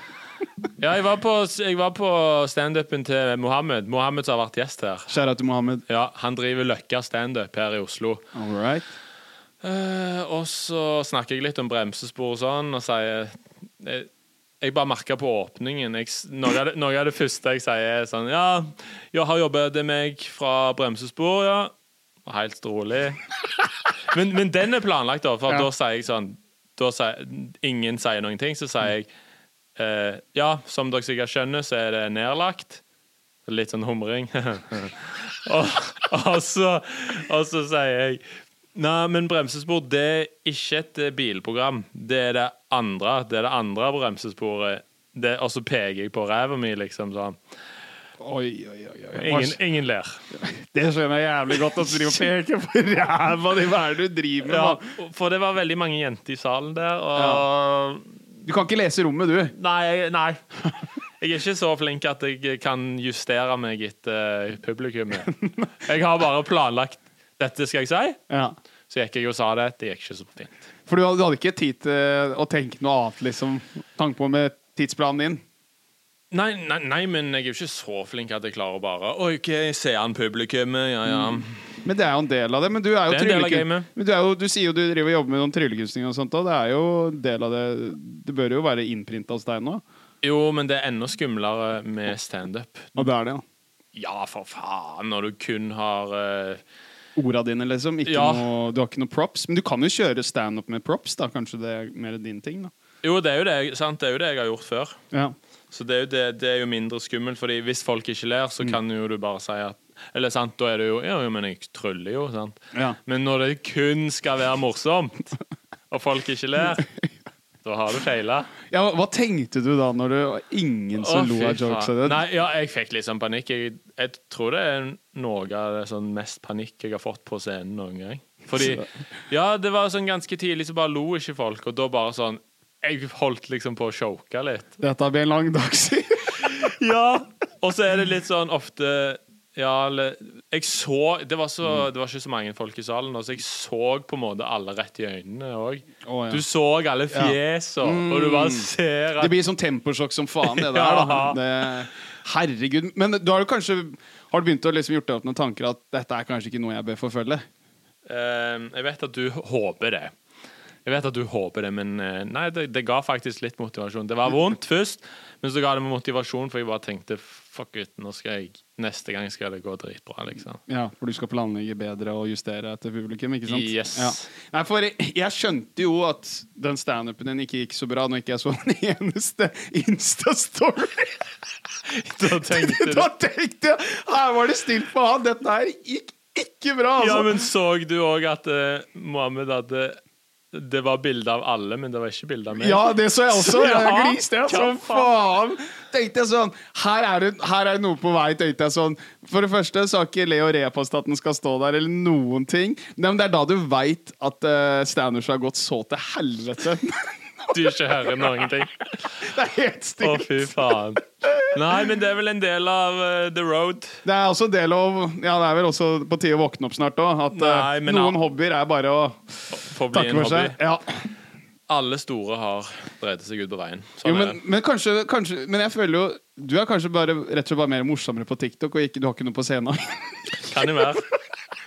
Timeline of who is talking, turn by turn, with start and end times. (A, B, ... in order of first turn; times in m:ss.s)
0:00.8-0:05.1 A
0:05.1-0:05.8 B
0:05.9-0:08.2 A
0:08.3-0:08.9 B
0:09.6-0:14.1 A
0:14.6-0:21.7 A
0:22.2-0:23.4 A
0:24.1-0:29.1 A
0:29.8-0:32.8 A
0:33.4-0:38.2 A
0:38.7-0:47.4 A
0:48.2-0:49.6 B
0:49.1-0:50.2 A
0:50.4-0:54.8 B
0:54.4-0:58.1 A
0:57.2-0:57.4 B
0:58.4-0:59.5 B
0:59.6-1:00.4 A
1:01.2-1:08.2 A
1:08.3-1:08.6 B
1:08.9-1:10.6 A
1:10.9-1:15.4 B
1:16.3-1:21.6 A
1:21.1-1:29.8 B
1:23.1-1:23.9 A
1:30.2-1:33.0 A
1:33.0-1:33.4 B
1:33.9-1:36.6 A
1:37.2-1:42.7 B
1:38.0-1:38.4 A
1:43.0-1:45.0 A
1:45.7-1:55.3 A
1:55.9-1:56.9 A
1:57.6-1:58.5 A
1:58.7-2:02.2 B
2:01.0-2:14.8 A
2:08.6-2:08.8 B
2:14.8-2:16.7 B
2:16.4-2:29.3 A
2:26.0-2:26.4 B
2:27.1-2:37.4 B
2:30.4-2:31.4 A
2:38.1-2:40.1 A
2:40.8-2:50.6 A
2:50.7-3:01.3 B
2:53.5-2:54.2 A
3:02.0-3:03.1 A
3:02.2-3:07.3 B
3:07.0-3:10.0 A
3:10.5-3:15.1 A
3:12.6-3:28.5 B
3:27.5-3:28.9 A
3:29.2-3:31.6 B
3:30.0-3:34.0 A
3:34.0-3:41.0 B
3:37.3-3:38.2 A
3:39.5-3:40.6 A
3:41.7-3:44.4 A
3:44.0-3:51.0 B
3:50.5-3:51.1 A